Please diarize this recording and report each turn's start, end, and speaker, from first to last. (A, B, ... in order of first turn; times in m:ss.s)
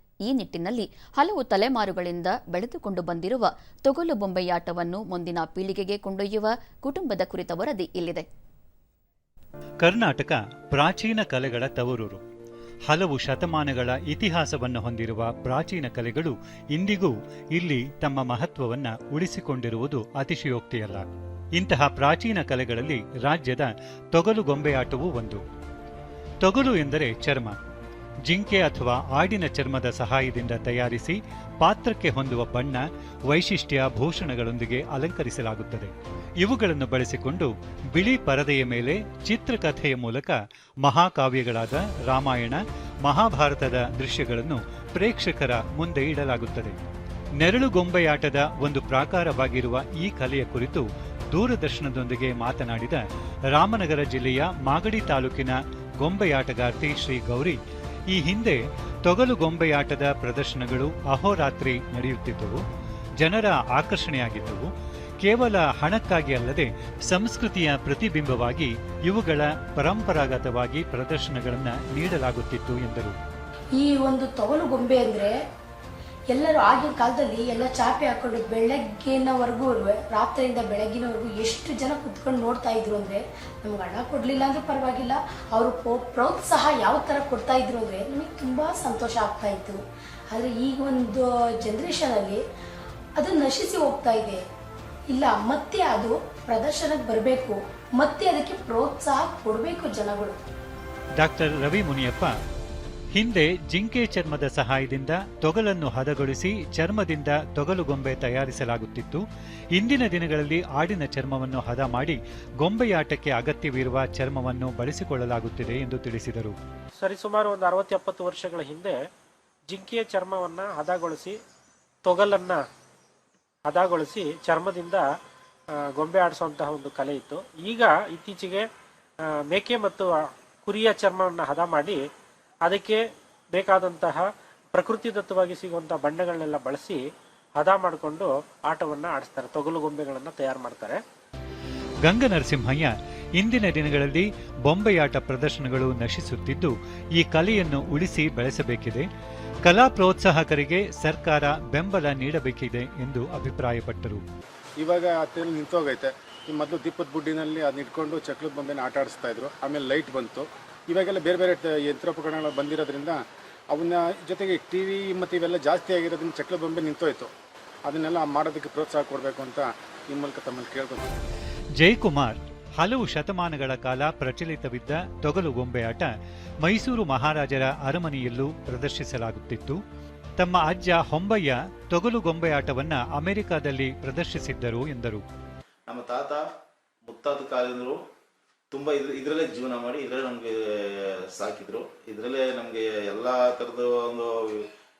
0:00.3-0:08.2 A
0:09.8-0:12.2 B
0:12.9-0:25.4 B
0:26.4-0:27.6 B
0:28.3-0:46.8 B
0:47.4-1:02.6 B
1:03.2-1:04.7 B
1:05.2-1:13.2 B
1:13.8-1:15.3 C
1:16.3-1:29.8 C
1:30.3-1:32.4 C
1:33.2-1:34.4 C
1:35.1-1:40.4 C
1:41.2-1:42.3 B
1:43.1-1:49.2 B
1:49.7-1:56.5 B
1:57.0-1:59.0 D
1:59.7-2:01.3 D
2:02.0-2:02.6 D
2:03.7-2:05.0 D
2:06.0-2:08.6 D
2:09.5-2:10.1 D
2:10.6-2:12.0 D
2:12.6-2:13.0 D
2:13.5-2:14.2 D
2:14.7-2:17.0 D
2:17.6-2:21.0 D
2:22.0-2:29.1 B
2:29.6-2:34.2 B
2:34.8-2:43.2 E
2:43.7-2:47.3 E
2:47.8-2:51.2 E
2:51.8-2:56.1 B
2:56.6-2:59.8 B
3:00.4-3:05.2 B
3:05.9-3:06.5 F
3:07.0-3:08.0 F
3:08.7-3:14.7 F